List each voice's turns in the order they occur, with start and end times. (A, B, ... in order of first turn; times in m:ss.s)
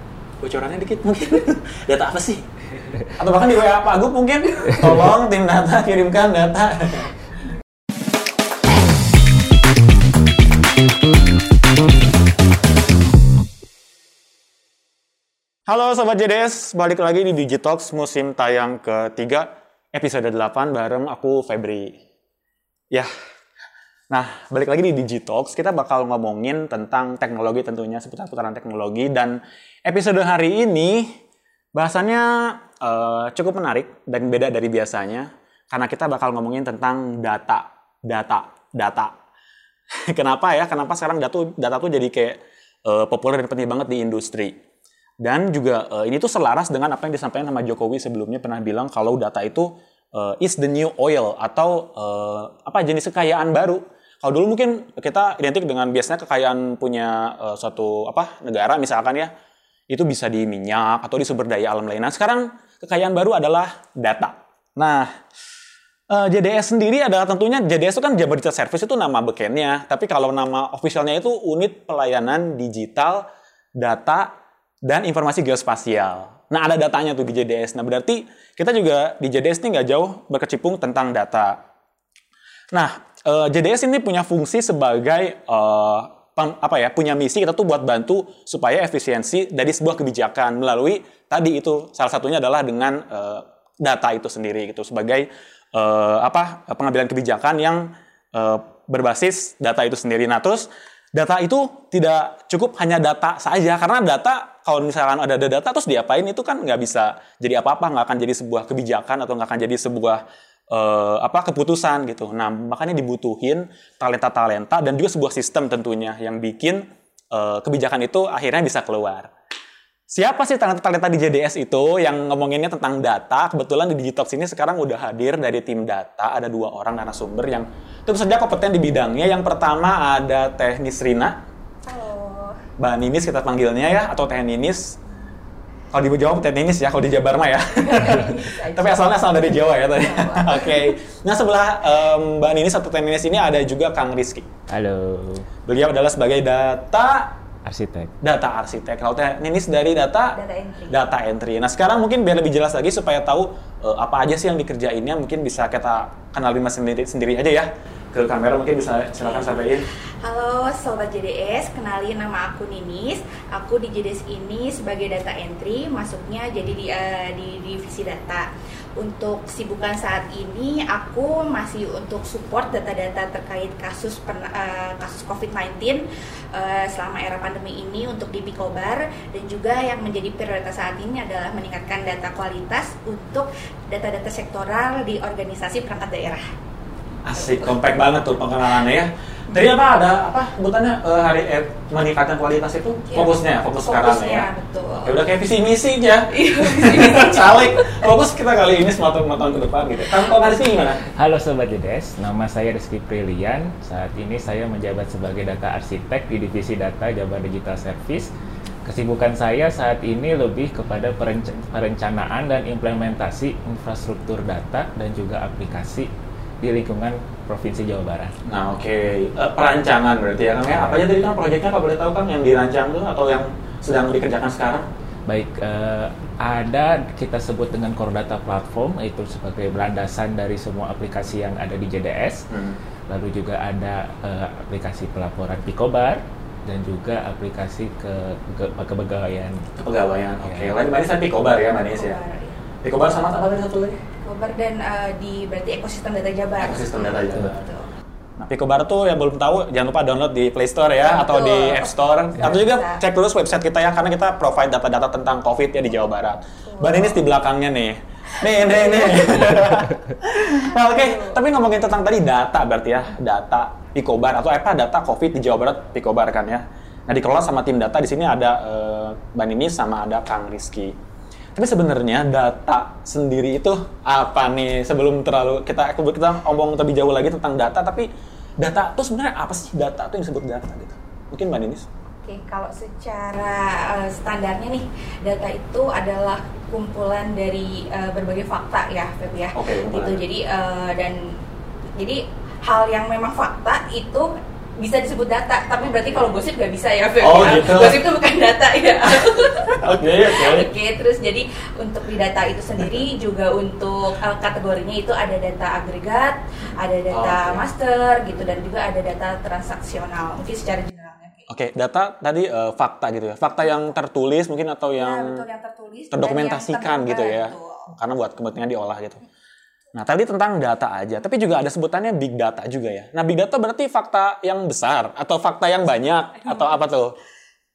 0:00.4-0:02.5 A
0:03.1-0:07.1 A
0:15.7-0:22.0 A
0:24.1-0:31.2 A
0:31.8-0:39.2 A
0:40.1-0:44.6 A
0:45.2-0:59.3 A
0:59.9-1:05.1 A
1:06.1-1:13.2 A
1:13.8-1:21.6 A
1:22.7-1:59.3 A
2:00.1-2:11.4 A
2:11.9-2:12.6 B
2:12.8-2:15.0 A
2:15.9-2:24.5 A
2:17.7-2:20.9 B
2:24.7-2:25.5 C
2:25.7-2:27.3 A
2:27.6-2:28.1 C
2:28.2-2:30.4 A
2:30.4-2:31.0 B
2:30.9-2:39.8 A
2:39.2-2:39.6 B
2:40.2-2:48.5 B
2:49.0-2:56.0 B
2:56.5-3:06.4 B
3:07.2-3:14.5 A
3:13.1-3:15.2 B
3:15.0-3:21.0 A
3:16.3-3:18.0 B
3:21.1-3:28.3 C
3:28.9-3:36.1 C
3:36.6-3:38.3 C
3:38.5-3:44.9 A
3:40.7-3:41.1 C
3:45.3-3:52.5 C
3:52.5-3:52.8 A
3:53.1-3:59.6 C
3:59.8-4:02.2 A
4:00.4-4:00.8 C
4:01.8-4:02.6 B
4:02.8-4:04.0 A
4:04.2-4:07.9 B
4:06.6-4:07.6 A
4:08.4-4:31.0 A
4:11.0-4:13.0 B
4:16.7-4:17.2 B
4:18.4-4:19.6 B
4:20.4-4:21.4 B
4:31.6-4:38.1 A
4:38.6-4:41.9 A
4:42.2-4:51.4 B
4:49.6-4:50.2 A
4:52.0-5:11.5 B
4:57.2-4:58.0 A
4:59.7-5:00.7 A
5:07.1-5:07.6 A
5:11.5-5:15.4 A
5:15.0-5:17.9 B
5:16.1-5:19.2 A
5:20.0-5:27.1 A